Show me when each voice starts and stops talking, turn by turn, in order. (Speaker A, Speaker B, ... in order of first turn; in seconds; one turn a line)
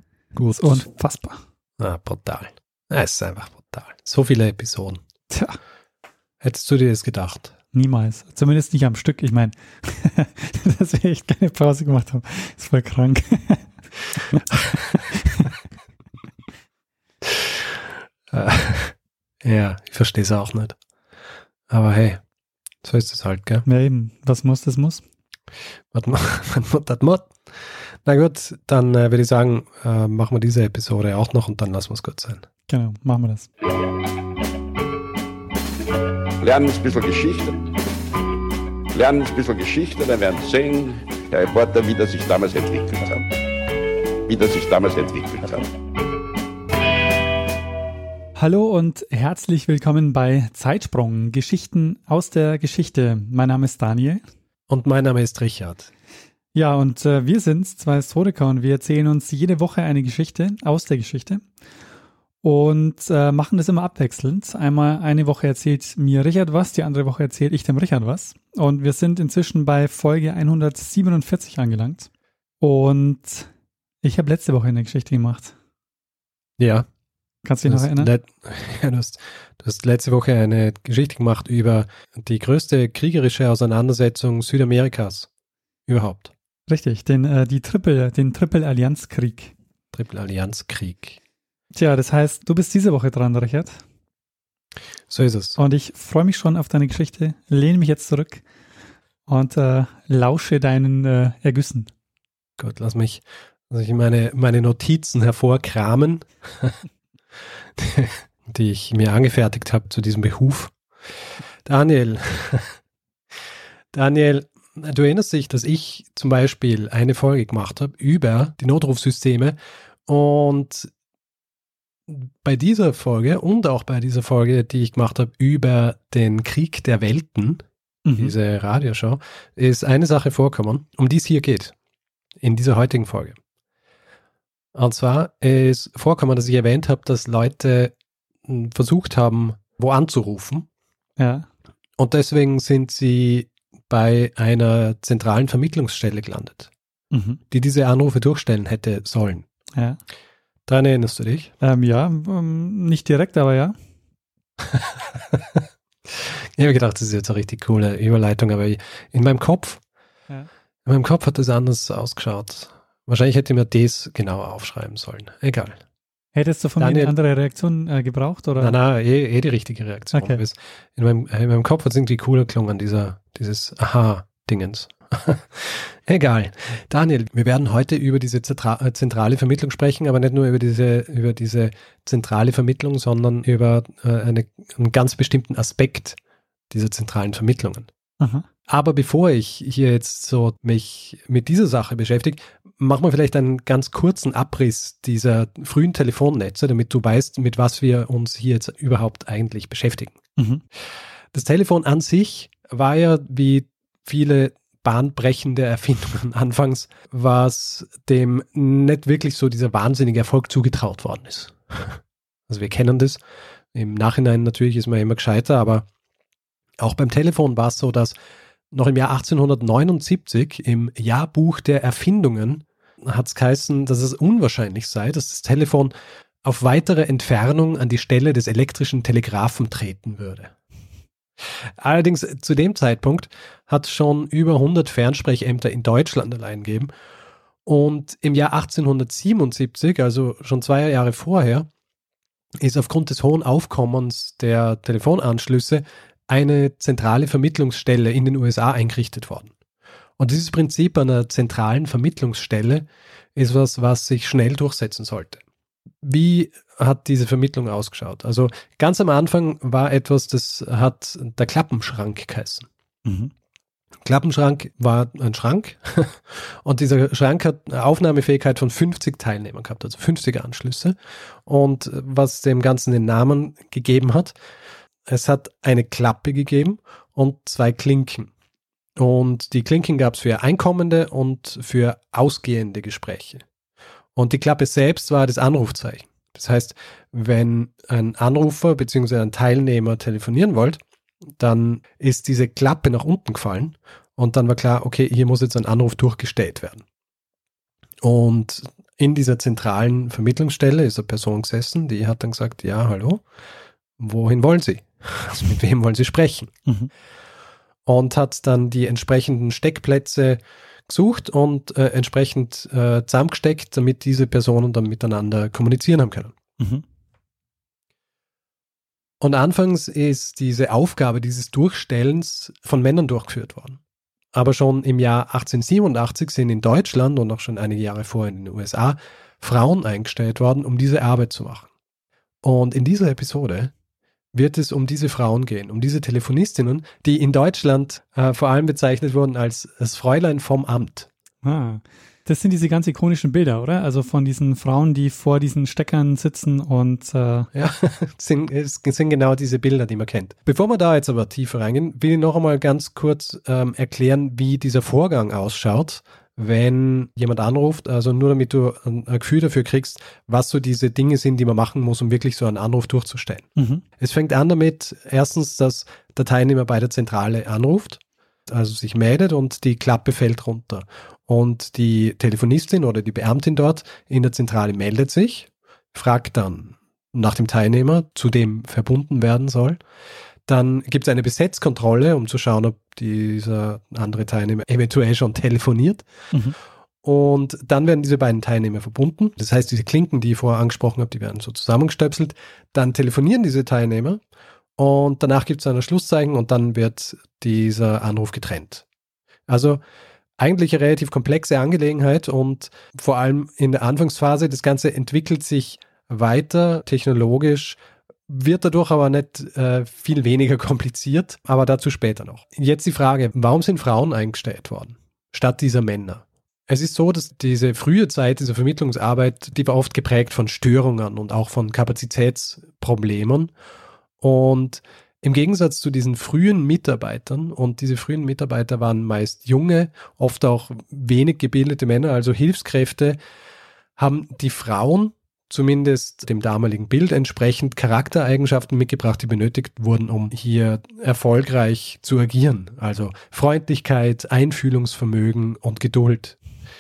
Speaker A: 0.4-0.8
Speaker B: 0.5-1.4
Speaker A: 1.8-5.0
Speaker B: 5.3-5.6
Speaker A: 6.4-7.5
Speaker B: 7.7-13.7
Speaker B: 15.1-15.5
Speaker A: 18.3-20.8
Speaker A: 21.7-22.2
Speaker A: 22.8-23.7
Speaker B: 23.7-25.0
Speaker A: 25.9-27.4
Speaker A: 28.1-32.5
Speaker B: 32.7-33.5
Speaker C: 36.4-37.5
Speaker C: 38.9-43.3
Speaker C: 44.3-45.7
Speaker B: 48.4-54.2
Speaker A: 54.7-55.9
Speaker B: 56.5-61.5
Speaker B: 62.4-72.1
Speaker B: 72.6-73.5
Speaker B: 74.0-75.5
Speaker A: 76.6-76.9
Speaker B: 77.4-78.1
Speaker A: 77.7-85.3
Speaker A: 85.9-86.3
Speaker B: 86.7-89.5
Speaker A: 89.9-91.2
Speaker B: 91.7-93.8
Speaker A: 95.1-95.6
Speaker B: 95.6-98.4
Speaker B: 99.3-101.9
Speaker A: 102.6-106.8
Speaker A: 107.8-110.7
Speaker A: 111.7-112.8
Speaker A: 113.9-119.6
Speaker A: 120.1-120.9
Speaker A: 122.1-127.6
Speaker B: 128.1-128.3
Speaker A: 128.2-131.7
Speaker A: 132.4-133.4
Speaker A: 134.8-137.9
Speaker A: 138.5-140.7
Speaker B: 141.2-141.5
Speaker A: 142.0-146.7
Speaker B: 147.1-147.4
Speaker A: 147.5-149.5
Speaker A: 150.7-151.5
Speaker B: 151.6-153.8
Speaker A: 154.7-155.6
Speaker A: 156.1-159.8
Speaker A: 160.9-165.8
Speaker B: 166.3-168.8
Speaker A: 166.8-167.1
Speaker A: 168.6-186.2
Speaker B: 170.1-170.4
Speaker A: 186.7-187.9
Speaker B: 188.2-188.5
Speaker A: 188.7-200.2
Speaker B: 200.4-200.6
Speaker A: 201.3-213.2
Speaker A: 213.7-215.8
Speaker A: 216.8-218.1
Speaker A: 218.7-225.9
Speaker A: 226.4-230.5
Speaker A: 231.8-236.9
Speaker A: 237.7-241.7
Speaker A: 242.6-249.5
Speaker A: 250.2-255.4
Speaker A: 256.0-262.7
Speaker B: 263.1-263.3
Speaker A: 264.1-270.9
Speaker A: 271.5-274.4
Speaker A: 275.1-278.3
Speaker A: 279.0-283.4
Speaker A: 284.2-290.8
Speaker A: 291.4-296.8
Speaker A: 298.0-303.2
Speaker A: 304.0-306.5
Speaker A: 307.9-316.4
Speaker B: 316.6-316.8
Speaker A: 319.2-323.8
Speaker A: 324.3-331.7
Speaker A: 332.4-333.7
Speaker A: 334.3-341.1
Speaker B: 341.4-347.5
Speaker A: 347.5-363.5
Speaker B: 363.6-363.8
Speaker A: 364.0-379.8
Speaker A: 380.5-386.1
Speaker A: 387.0-394.2
Speaker A: 394.8-398.8
Speaker A: 399.5-399.8
Speaker A: 400.4-423.5
Speaker A: 424.2-433.2
Speaker A: 434.0-446.4